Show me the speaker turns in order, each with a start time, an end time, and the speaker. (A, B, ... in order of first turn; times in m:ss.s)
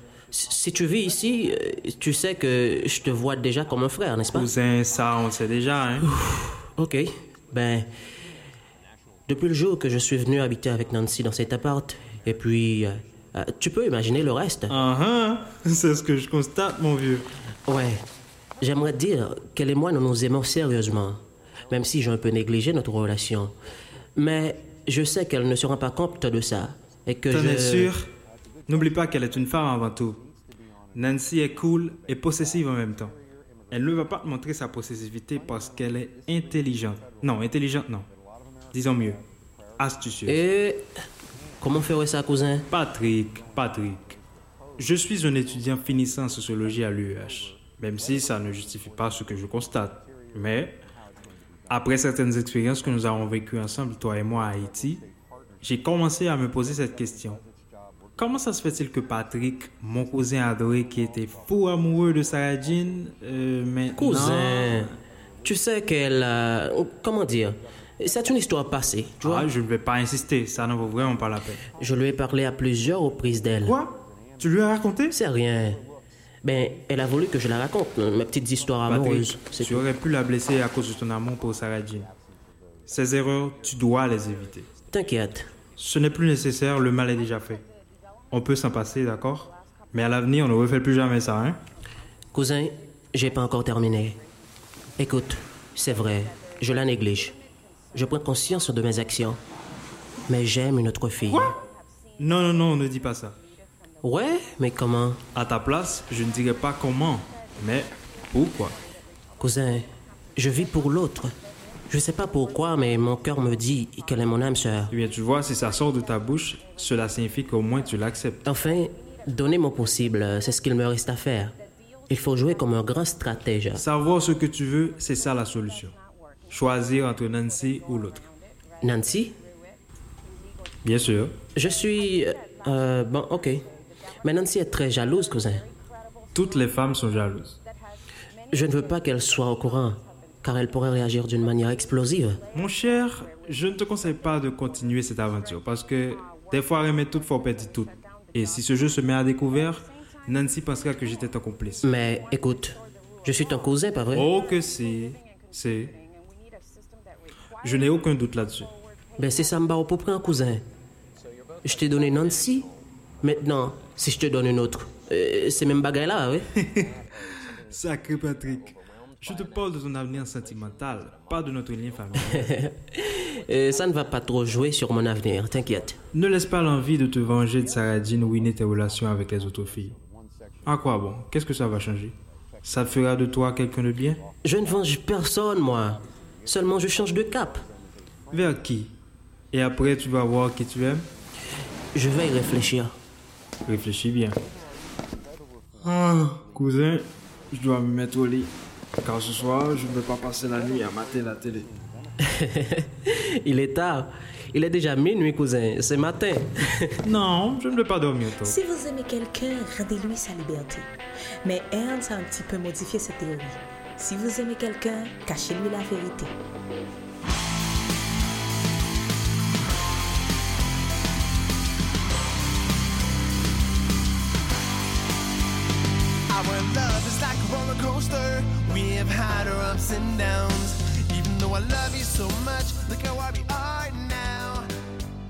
0:00.3-0:04.5 A
0:04.3-0:06.1 B
0:06.0-0:07.9 A
0:09.3-0:14.8 A
0:14.7-0:17.3 B
0:17.7-0:18.0 A
0:18.6-0:23.5 A
0:24.2-0:27.9 A
0:27.3-0:28.1 B
0:28.7-0:30.2 B
0:30.9-0:33.1 B
0:33.7-0:38.1 B
0:38.7-0:39.2 B
0:39.8-0:40.4 B
0:40.3-0:40.9 A
0:41.6-0:42.7 A
0:42.7-0:44.2 B
0:44.8-0:50.8 B
0:51.7-0:55.1 B
0:55.6-0:57.4 B
0:58.2-1:05.0 B
1:04.0-1:09.5 A
1:09.2-1:11.6 B
1:11.8-1:13.8 A
1:13.6-1:15.2 B
1:15.1-1:15.8 A
1:16.4-1:19.8 A
1:18.8-1:22.1 B
1:22.9-1:24.7 B
1:24.9-1:25.5 A
1:25.8-1:27.6 B
1:28.3-1:31.6 B
1:32.3-1:34.2 A
1:35.0-1:37.4 A
1:37.9-1:39.4 A
1:40.3-1:41.6 A
1:41.3-1:41.5 B
1:42.2-1:43.4 B
1:44.0-1:45.2 A
1:45.3-1:48.8 B
1:49.4-1:51.3 A
1:51.9-1:54.9 A
1:54.9-1:58.4 B
1:58.4-2:01.5 A
2:02.1-2:03.8 A
2:03.7-2:05.9 B
2:06.5-2:08.3 B
2:08.8-2:09.4 A
2:10.8-2:11.4 B
2:11.6-2:13.6 A
2:14.2-2:15.7 A
2:16.3-2:17.6 B
2:18.5-2:22.4 A
2:22.5-2:31.8 B
2:31.8-2:34.3 A
2:34.1-2:35.9 B
2:37.6-2:38.7 B
2:39.2-2:40.6 A
2:41.6-2:42.7 A
2:43.2-2:46.5 A
2:46.6-2:52.6 B
2:52.2-2:56.0 A
2:56.1-3:00.0 B
3:00.6-3:04.2 B
3:04.4-3:07.6 A
3:08.3-3:09.0 B
3:09.5-3:11.1 B
3:11.9-3:12.9 A
3:13.6-3:14.4 B
3:15.8-3:21.7 B
3:22.4-3:26.9 A
3:27.0-3:28.6 B
3:28.4-3:30.9 C
3:31.4-3:36.3 C
3:46.3-3:54.7 D